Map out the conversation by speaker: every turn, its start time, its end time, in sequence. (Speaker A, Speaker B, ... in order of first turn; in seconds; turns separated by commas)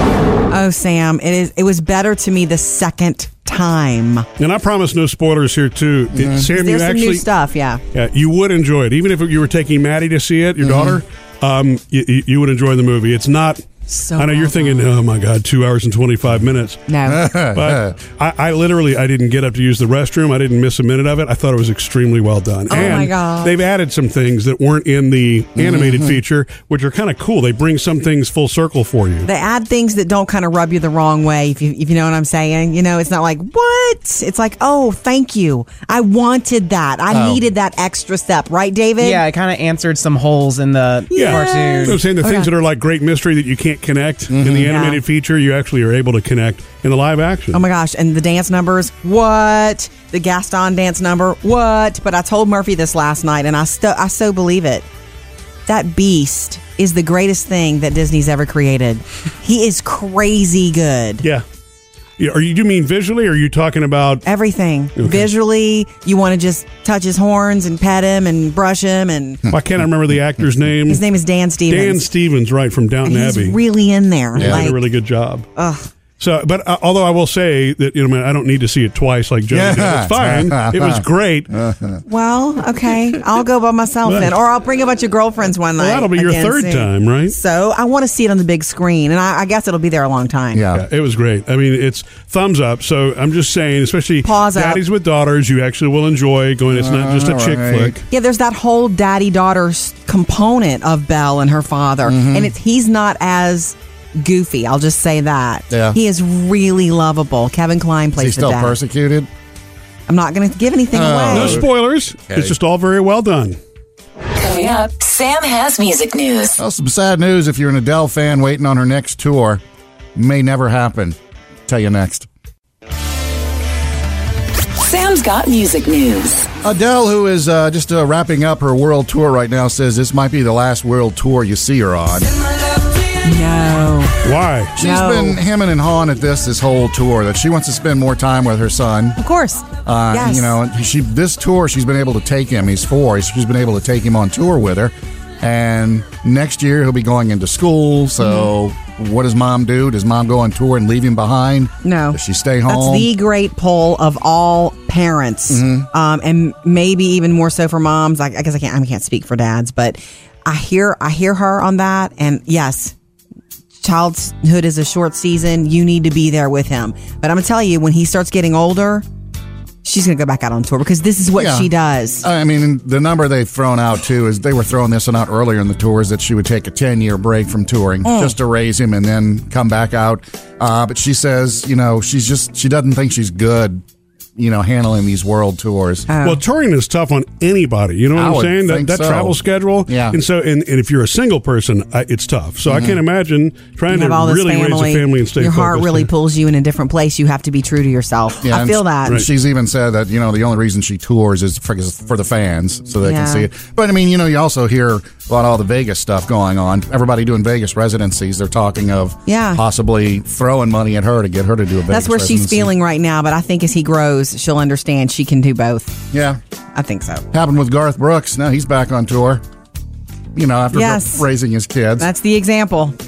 Speaker A: 0.5-4.2, Speaker B: 4.4-7.2, Speaker C: 6.1-6.5, Speaker A: 6.5-7.8, Speaker B: 7.9-16.8, Speaker C: 10.6-11.0, Speaker A: 13.9-14.9, Speaker A: 16.9-17.3, Speaker C: 17.1-17.9, Speaker B: 17.5-29.3, Speaker A: 22.7-23.6, Speaker C: 25.6-26.2, Speaker A: 29.2-39.2, Speaker C: 37.1-37.4, Speaker D: 39.0-42.0, Speaker A: 41.1-42.5, Speaker B: 41.1-47.6, Speaker C: 44.3-44.8, Speaker A: 44.6-45.0, Speaker A: 47.5-54.9, Speaker A: 55.6-61.2, Speaker B: 62.2-64.2, Speaker A: 64.2-69.4, Speaker B: 65.0-65.2, Speaker B: 69.5-71.0, Speaker A: 70.9-72.1, Speaker B: 71.7-73.6, Speaker A: 73.0-74.8, Speaker B: 74.3-75.5, Speaker C: 74.4-74.7, Speaker A: 75.5-75.9, Speaker B: 76.2-81.5, Speaker C: 79.5-82.0, Speaker A: 82.0-90.6, Speaker B: 84.0-84.3, Speaker B: 85.8-87.3, Speaker C: 90.5-90.8, Speaker B: 90.7-98.0, Speaker A: 94.2-94.8, Speaker C: 96.7-98.0, Speaker A: 98.1-108.8, Speaker C: 102.0-102.5, Speaker C: 105.7-106.0, Speaker C: 108.2-109.3, Speaker A: 110.1-111.6, Speaker C: 110.9-111.7, Speaker B: 111.3-113.6, Speaker C: 112.3-112.5, Speaker E: 114.3-116.6, Speaker C: 116.6-119.6, Speaker C: 120.1-122.3, Speaker E: 124.7-126.4, Speaker C: 126.6-132.3, Speaker A: 133.2-134.2, Speaker B: 134.2-134.7, Speaker C: 134.8-139.2, Speaker A: 134.8-135.4, Speaker A: 139.2-140.5, Speaker C: 139.8-153.1, Speaker A: 151.8-162.9, Speaker C: 155.5-155.9, Speaker A: 163.8-169.0, Speaker A: 169.8-172.2, Speaker C: 171.4-171.7, Speaker C: 172.2-183.8, Speaker A: 178.0-178.3, Speaker C: 184.3-186.1, Speaker A: 186.1-186.4, Speaker B: 186.2-196.1, Speaker C: 188.1-190.2, Speaker C: 192.7-193.0, Speaker A: 193.9-199.2, Speaker C: 198.4-212.7, Speaker A: 203.0-203.5, Speaker A: 209.3-209.6, Speaker A: 211.9-216.0, Speaker C: 216.1-216.4, Speaker A: 216.7-217.2, Speaker C: 217.3-219.4, Speaker C: 220.3-222.1, Speaker A: 220.7-221.3, Speaker A: 222.0-222.9